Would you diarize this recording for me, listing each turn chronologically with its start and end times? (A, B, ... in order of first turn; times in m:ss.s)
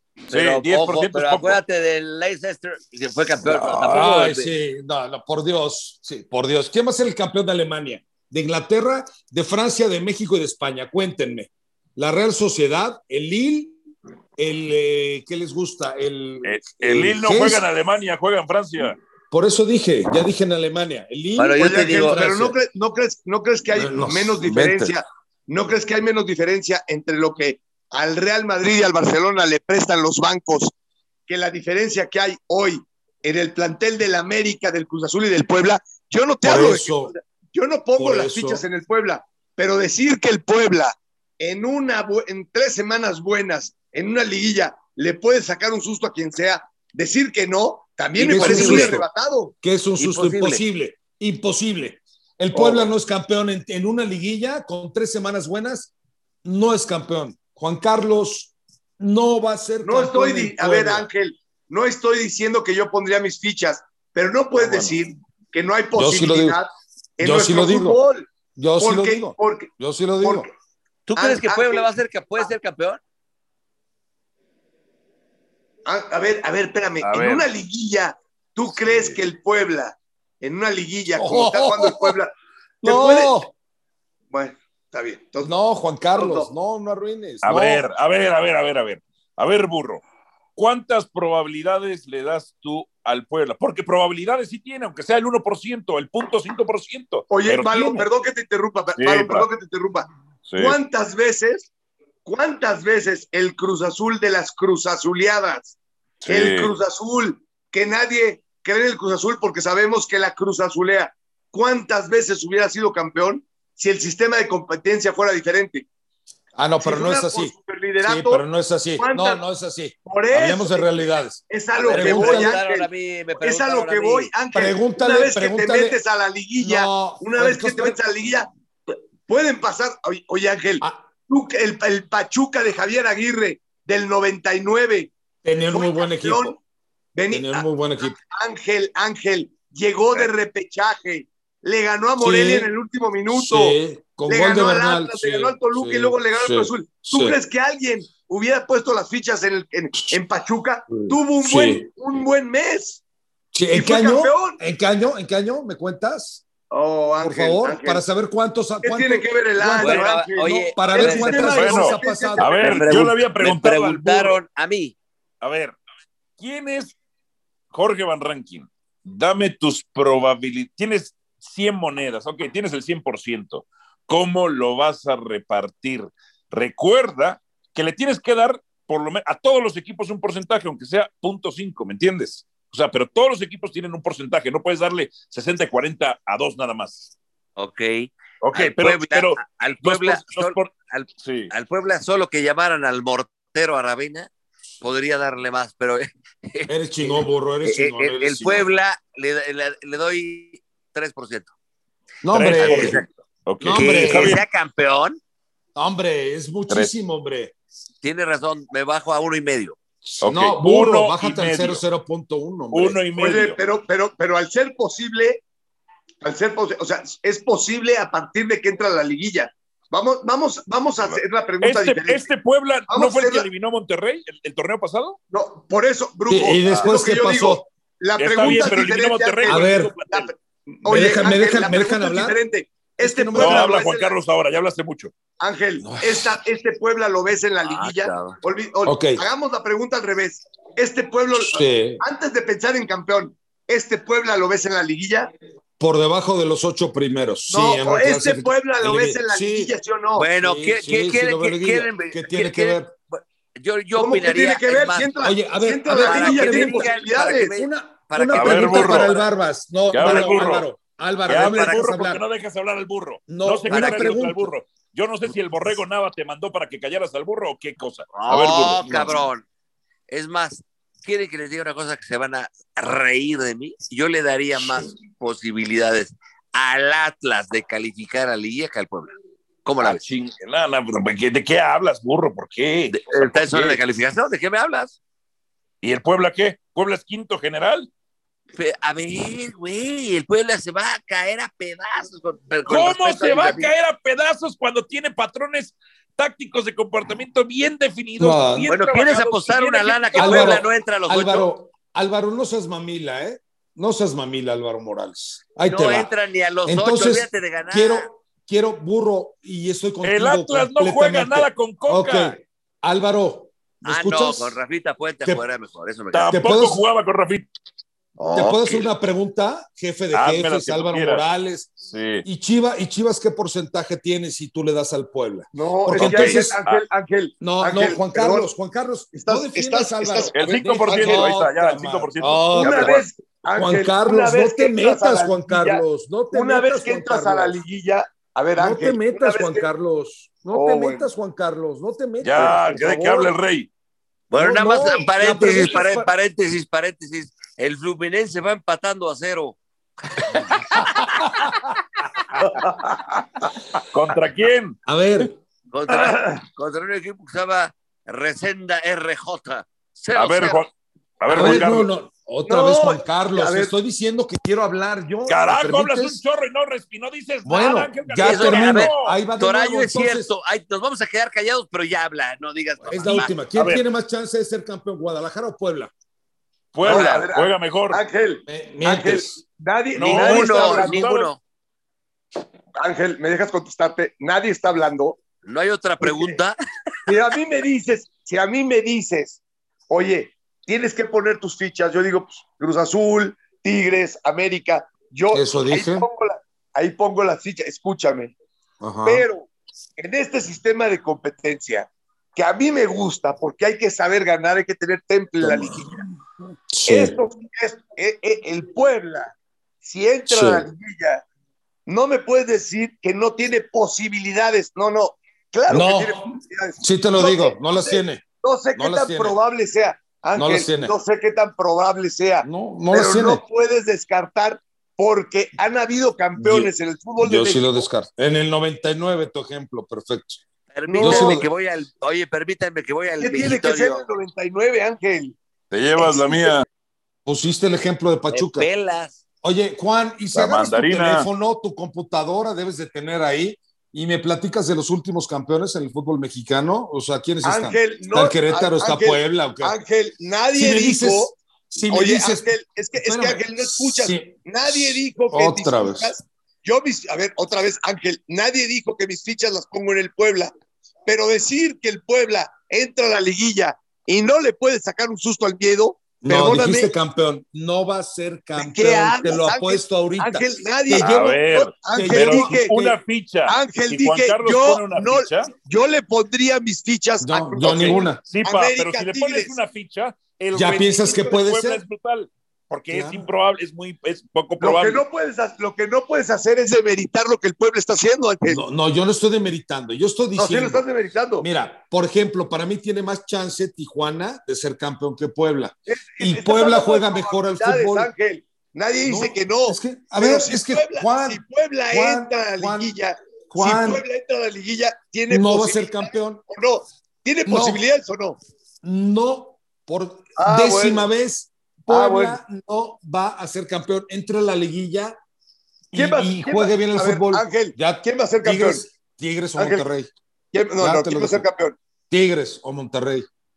0:00.3-0:04.5 A
0:00.3-0:01.6 B
0:03.4-0:13.8 C
0:14.4-0:17.6 C
0:16.4-0:19.0 B
0:19.3-0:22.6 C
0:21.4-0:22.2 A
0:21.6-0:30.7 D
0:23.7-0:25.0 C
0:31.3-0:49.5 D
0:36.4-0:37.1 C
0:38.0-0:38.6 C
0:48.2-0:49.1 C
0:48.3-0:49.0 A
0:49.6-0:55.9 C
0:50.0-0:50.6 A
0:52.5-0:52.9 D
0:56.4-1:01.1 C
0:59.8-1:10.5 D
1:05.9-1:06.6 C
1:07.2-1:08.0 C
1:08.6-1:10.5 C
1:11.0-1:13.0 A
1:11.2-1:11.9 D
1:15.8-1:22.3 D
1:17.0-1:17.5 B
1:21.1-1:22.2 C
1:22.8-1:23.5 C
1:22.8-1:23.4 D
1:24.3-1:25.5 D
1:25.4-1:27.8 C
1:26.2-1:26.5 D
1:27.4-1:30.0 B
1:30.6-1:38.0 B
1:37.3-1:41.7 D
1:39.0-1:39.5 B
1:40.5-1:40.8 B
1:42.2-1:45.8 D
1:46.2-1:46.7 B
1:46.3-1:55.8 D
1:56.6-2:02.6 C
1:56.8-1:58.4 D
1:59.0-1:59.4 D
2:00.0-2:02.9 D
2:01.8-2:04.3 A
2:03.4-2:15.1 D
2:04.5-2:06.0 C
2:06.6-2:08.0 C
2:10.8-2:11.1 C
2:15.4-2:16.6 C
2:15.7-2:16.6 D
2:17.1-2:33.0 D
2:17.3-2:18.2 C
2:22.2-2:22.7 C
2:23.3-2:27.4 C
2:30.9-2:31.9 C
2:33.5-2:36.4 C
2:33.7-2:34.6 D
2:36.7-2:38.0 D
2:37.2-2:42.5 C
2:38.8-2:42.9 D
2:39.8-2:41.7 A
2:41.5-2:44.4 B
2:42.6-2:45.0 A
2:45.4-2:45.8 B
2:46.4-2:47.0 B
2:47.7-3:07.1 B
3:07.6-3:14.3 A
3:08.4-3:11.5 B
3:14.8-3:21.5 A
3:16.7-3:18.6 C
3:22.2-3:23.0 C
3:22.3-3:24.4 B
3:22.5-3:23.0 A
3:23.6-3:24.4 C
3:23.6-3:25.2 A
3:25.7-3:27.5 C
3:28.0-3:29.8 A
3:30.1-3:33.0 C
3:30.2-3:31.8 B
3:32.7-3:33.6 B
3:33.2-3:35.4 D
3:36.2-3:42.2 D
3:41.0-3:45.2 B
3:42.9-3:43.4 D
3:45.3-3:54.1 D
3:46.3-3:47.6 C
3:48.2-3:50.3 B
3:49.4-3:49.9 C
3:50.8-3:52.4 C
3:53.0-3:53.8 C
3:53.4-3:55.1 B
3:55.4-4:05.3 D
3:55.8-3:56.4 C
3:57.6-3:58.4 A
3:58.8-3:59.2 C
4:01.4-4:02.0 C
4:05.8-4:09.7 C
4:07.5-4:10.3 D
4:10.2-4:15.1 A
4:10.4-4:12.9 C
4:13.9-4:17.5 D
4:15.2-4:22.2 C
4:15.9-4:19.2 A
4:18.3-4:19.1 B
4:19.9-4:20.7 B
4:20.0-4:20.3 A
4:21.3-4:29.2 B
4:21.3-4:21.8 A
4:23.3-4:24.5 C
4:23.7-4:24.2 A
4:28.1-4:29.4 A
4:30.1-4:39.1 A
4:39.6-4:40.0 A
4:39.8-4:43.8 B
4:42.9-4:45.0 A
4:45.8-4:47.9 B
4:48.6-4:53.7 A
4:52.7-5:00.6 B
4:58.2-4:58.7 C
4:58.7-5:01.5 A
5:00.2-5:06.1 C
5:05.6-5:08.1 A
5:06.6-5:14.6 C
5:10.0-5:12.4 B
5:13.8-5:16.4 A
5:16.1-5:17.5 B
5:16.3-5:16.8 C
5:18.2-5:18.9 A
5:18.3-5:26.6 C
5:20.1-5:21.2 B
5:21.9-5:22.2 B
5:25.5-5:28.5 D
5:26.0-5:26.8 B
5:27.4-5:33.0 C
5:29.1-5:31.3 D
5:30.3-5:33.0 B
5:32.6-5:39.6 D
5:33.5-5:37.6 C
5:38.6-5:43.0 C
5:40.5-5:41.0 D
5:42.2-5:43.7 B
5:42.4-5:43.3 D
5:44.3-5:49.6 A
5:44.3-5:46.1 C
5:50.2-5:51.3 A
5:52.4-5:53.2 D
5:53.9-5:54.8 B
5:54.8-5:55.3 C
5:55.7-6:00.6 A
5:55.9-5:56.4 D
6:00.1-6:00.7 B
6:01.2-6:01.9 B
6:01.3-6:06.2 C
6:02.4-6:03.7 D
6:05.3-6:09.1 B
6:07.4-6:10.3 C
6:08.2-6:13.4 A
6:12.9-6:15.9 C
6:13.5-6:13.8 B
6:16.7-6:18.0 B
6:16.8-6:17.2 A
6:16.8-6:21.0 D
6:18.5-6:19.4 C
6:19.9-6:21.3 B
6:20.0-6:21.4 A
6:22.8-6:25.2 D
6:25.4-6:26.6 A
6:26.0-6:26.3 D
6:27.0-6:38.3 D
6:35.3-6:36.1 C
6:38.8-6:39.2 C
6:39.0-6:46.0 D
6:45.4-6:45.9 C
6:46.7-6:47.1 C
6:46.9-6:51.2 D
6:50.3-6:50.7 C
6:51.9-7:07.8 D
6:55.7-6:59.4 C
7:00.3-7:00.9 C
7:02.4-7:03.4 C
7:06.4-7:10.4 C
7:10.7-7:14.0 A
7:10.9-7:11.4 D
7:11.0-7:11.4 C
7:13.2-7:15.4 D
7:15.7-7:16.6 B
7:16.0-7:16.6 D
7:17.2-7:18.7 C
7:18.3-7:19.2 A
7:19.4-7:29.8 C
7:20.3-7:21.3 B
7:27.4-7:31.3 D
7:30.5-7:36.2 C
7:31.9-7:40.5 D
7:41.0-7:46.9 D
7:46.2-7:52.6 C
7:48.6-7:59.6 D
7:51.0-7:55.5 B
7:57.2-7:58.2 C
7:57.6-8:05.0 B
8:00.5-8:01.8 C
8:02.9-8:03.3 C
8:04.6-8:08.6 D
8:08.4-8:10.8 C
8:10.4-8:11.5 D
8:11.4-8:18.1 C
8:15.9-8:28.4 D
8:19.0-8:22.9 C
8:23.5-8:24.0 C
8:25.3-8:26.4 C
8:27.4-8:27.8 C
8:28.8-8:35.1 C
8:30.4-8:31.1 D
8:31.9-8:32.4 D
8:35.9-8:40.1 C
8:35.9-8:38.8 D
8:39.6-8:39.8 D
8:40.5-8:41.8 D
8:40.8-8:41.5 C
8:42.1-8:43.3 C